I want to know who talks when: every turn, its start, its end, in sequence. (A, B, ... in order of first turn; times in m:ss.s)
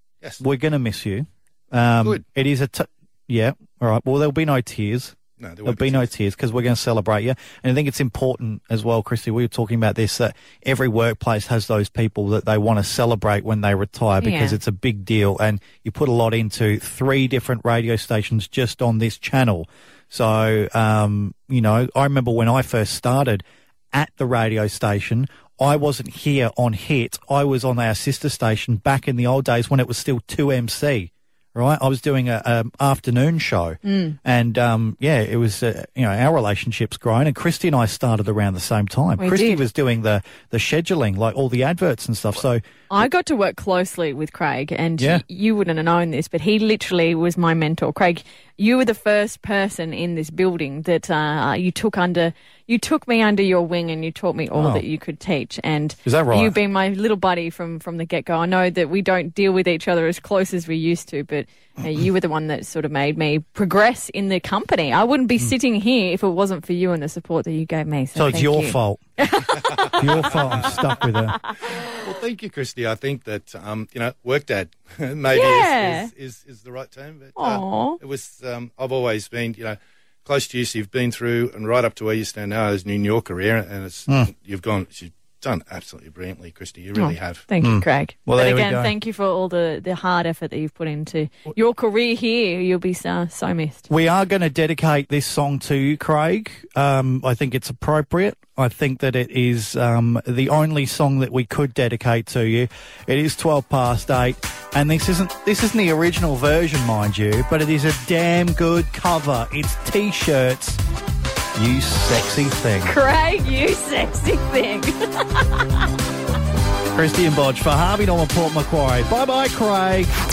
0:00.4-0:43.1 A
0:05.4-0:06.1 B
0:14.2-0:14.6 C
0:33.8-0:34.2 C
0:39.2-0:39.6 C
0:42.9-1:10.4 C
0:45.0-0:45.2 A
0:54.6-0:54.8 A
0:56.0-0:56.6 A
1:08.2-1:09.1 A
1:10.0-1:11.4 A
1:10.0-1:11.0 B
1:12.0-1:27.5 B
1:15.3-1:16.1 C
1:17.4-1:18.0 C
1:27.0-1:33.9 C
1:27.6-1:28.9 A
1:33.9-1:50.8 A
1:51.6-1:52.9 A
1:52.9-1:55.6 C
1:56.9-2:00.1 A